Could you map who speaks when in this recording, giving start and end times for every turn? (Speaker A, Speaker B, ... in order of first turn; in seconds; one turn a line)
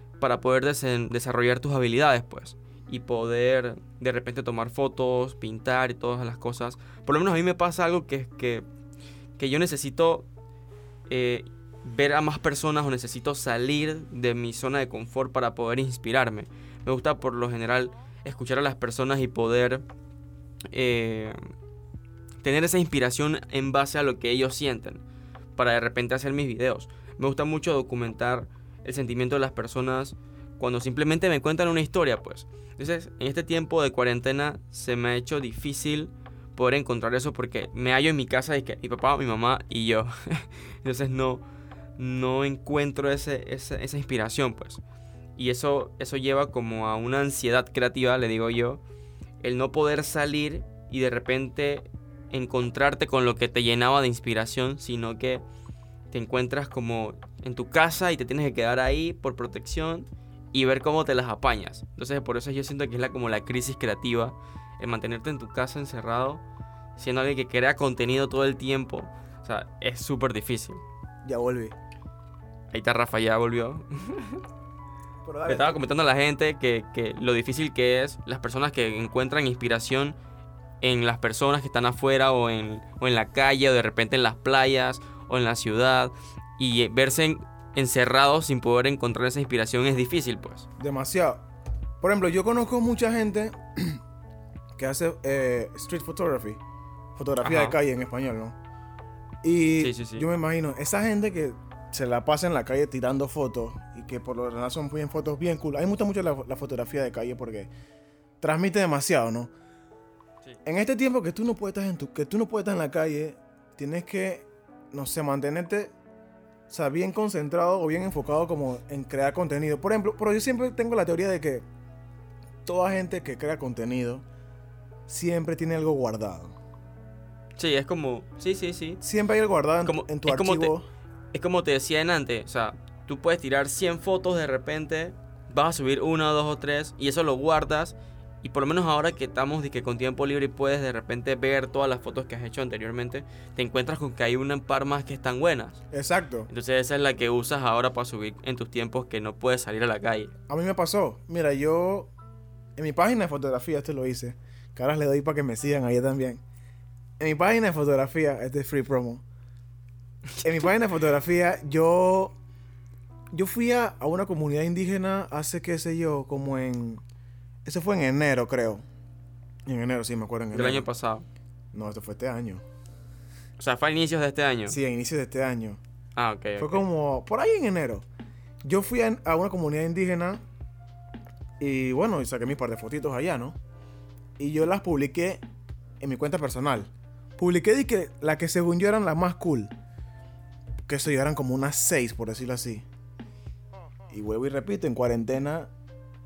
Speaker A: 0.2-8.7
Speaker A: 9.4-10.3
Speaker A: 11.1-19.9
Speaker A: 20.7-21.4
Speaker A: 22.4-25.0
Speaker A: 25.6-41.4
Speaker A: 42.0-44.8
Speaker A: 45.4-48.8
Speaker A: 49.4-55.4
Speaker A: 56.1-66.4
Speaker A: 67.0-70.8
Speaker B: 71.2-71.8
Speaker A: 72.7-74.4
Speaker B: 75.2-75.8
Speaker A: 75.5-80.2
Speaker A: 80.8-90.7
Speaker B: 90.8-91.4
Speaker B: 92.0-94.0
Speaker B: 94.8-96.6
Speaker B: 97.2-98.6
Speaker A: 97.4-97.8
Speaker B: 99.4-107.7
Speaker A: 99.8-100.2
Speaker B: 108.4-109.5
Speaker B: 110.7-115.9
Speaker B: 116.7-121.7
Speaker B: 122.7-124.2
Speaker B: 125.1-126.5
Speaker A: 127.6-129.0
Speaker B: 129.0-130.9
Speaker A: 129.8-130.7
Speaker A: 131.3-145.8
Speaker B: 145.9-146.5
Speaker A: 146.5-150.3
Speaker B: 150.5-152.1
Speaker B: 152.8-156.4
Speaker B: 157.2-159.2
Speaker B: 160.4-162.3
Speaker B: 163.3-167.0
Speaker B: 167.7-168.8
Speaker B: 169.7-170.9
Speaker A: 170.5-171.2
Speaker B: 171.7-172.6
Speaker A: 173.6-174.8
Speaker B: 174.7-175.8
Speaker A: 176.2-176.8
Speaker B: 176.6-178.1
Speaker B: 178.6-180.4
Speaker B: 181.6-183.6
Speaker B: 184.4-185.4
Speaker B: 186.0-189.7
Speaker B: 190.9-192.8
Speaker B: 194.1-195.7